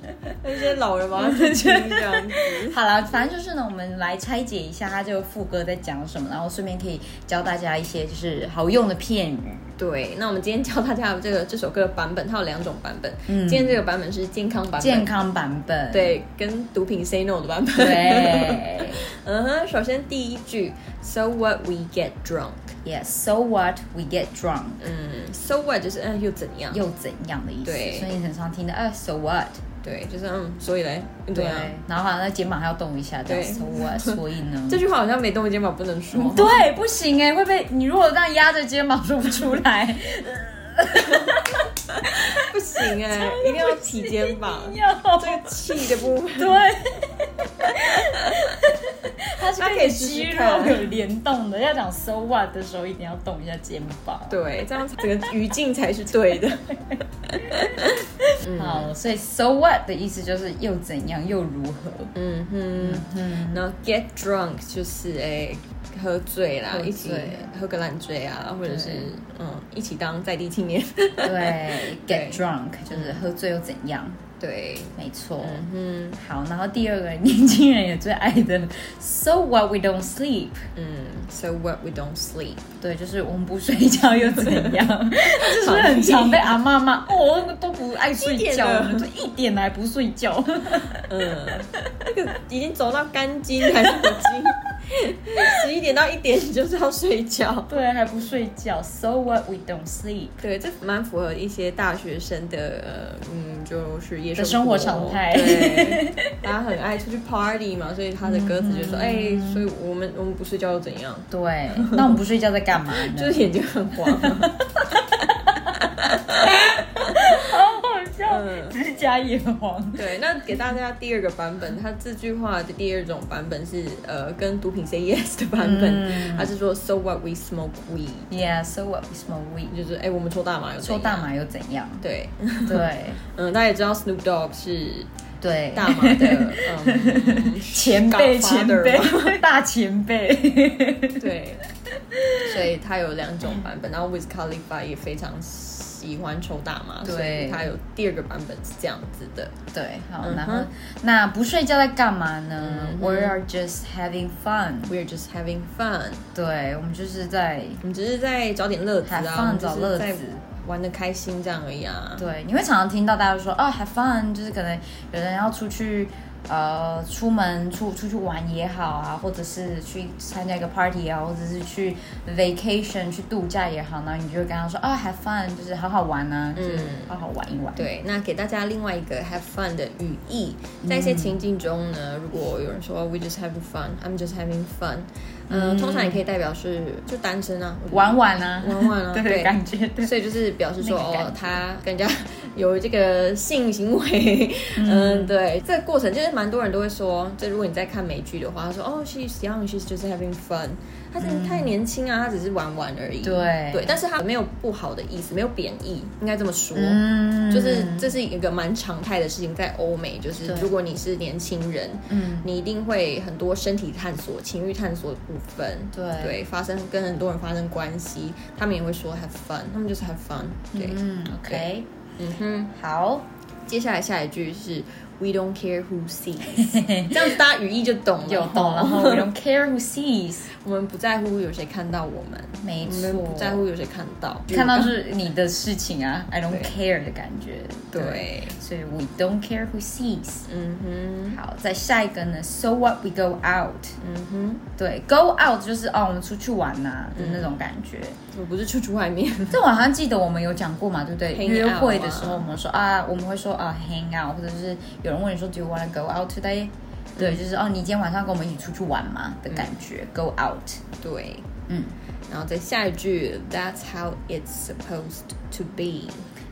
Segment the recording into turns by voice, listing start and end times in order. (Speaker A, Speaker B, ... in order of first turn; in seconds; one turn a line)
Speaker A: 0.4-2.8
Speaker B: 1.1-9.7
Speaker A: 9.8-15.1
Speaker B: 13.3-13.8
Speaker B: 14.8-16.2
Speaker A: 15.9-22.8
Speaker B: 17.8-19.0
Speaker B: 22.8-24.9
Speaker A: 24.8-26.8
Speaker B: 26.7-29.6
Speaker A: 27.6-28.2
Speaker A: 29.8-31.8
Speaker B: 31.3-34.8
Speaker A: 33.3-36.7
Speaker B: 36.1-41.6
Speaker A: 41.0-41.4
Speaker A: 42.1-46.7
Speaker B: 42.9-54.5
Speaker A: 49.5-51.0
Speaker A: 54.3-58.9
Speaker B: 58.5-62.1
Speaker A: 62.1-73.2
Speaker B: 62.8-63.6
Speaker B: 66.7-67.5
Speaker B: 68.7-69.1
Speaker B: 71.2-74.2
Speaker A: 74.4-76.2
Speaker B: 75.0-75.7
Speaker B: 76.2-80.6
Speaker A: 80.8-82.7
Speaker B: 82.8-91.1
Speaker A: 84.2-86.6
Speaker A: 88.0-89.1
Speaker A: 91.1-97.8
Speaker B: 93.9-94.3
Speaker B: 97.7-100.4
Speaker A: 100.4-112.2
Speaker B: 104.3-106.3
Speaker B: 108.2-109.7
Speaker B: 111.3-113.5
Speaker A: 112.9-114.5
Speaker B: 114.1-115.2
Speaker A: 115.6-116.8
Speaker B: 116.4-120.1
Speaker A: 118.3-118.8
Speaker A: 120.0-128.3
Speaker B: 125.6-126.5
Speaker B: 128.3-129.7
Speaker A: 129.7-131.3
Speaker B: 130.8-132.1
Speaker A: 132.0-135.1
Speaker B: 132.7-133.2
Speaker B: 135.4-141.3
Speaker A: 135.7-139.4
Speaker A: 141.2-141.6
Speaker B: 142.1-142.5
Speaker A: 142.4-149.5
Speaker B: 147.0-147.7
Speaker B: 149.7-155.0
Speaker A: 150.2-150.7
Speaker A: 152.6-153.4
Speaker A: 154.9-156.2
Speaker B: 156.3-157.8
Speaker A: 157.8-162.3
Speaker B: 159.0-160.4
Speaker B: 162.2-177.9
Speaker A: 176.6-177.2
Speaker A: 177.8-222.7
Speaker B: 180.8-181.4
Speaker B: 185.5-186.2
Speaker B: 187.9-190.1
Speaker B: 190.8-191.4
Speaker B: 194.8-195.4
Speaker B: 201.2-201.7
Speaker B: 203.2-204.0
Speaker B: 206.8-208.1
Speaker B: 210.4-210.7
Speaker B: 212.1-212.5
Speaker B: 215.9-216.4
Speaker B: 220.7-221.9
Speaker B: 222.7-223.3
Speaker A: 223.7-229.3
Speaker B: 226.5-227.4
Speaker B: 228.2-230.5
Speaker A: 230.5-235.0
Speaker B: 232.6-233.7
Speaker B: 234.5-240.5
Speaker A: 236.5-236.8
Speaker A: 237.9-238.6
Speaker A: 240.5-241.4
Speaker B: 241.3-244.0
Speaker A: 244.0-244.6
Speaker B: 244.8-248.2
Speaker A: 247.2-247.5
Speaker A: 248.3-249.6
Speaker B: 249.5-260.8
Speaker A: 251.3-252.5
Speaker A: 257.2-257.4
Speaker A: 261.0-261.5
Speaker B: 261.7-262.0
Speaker A: 262.3-266.3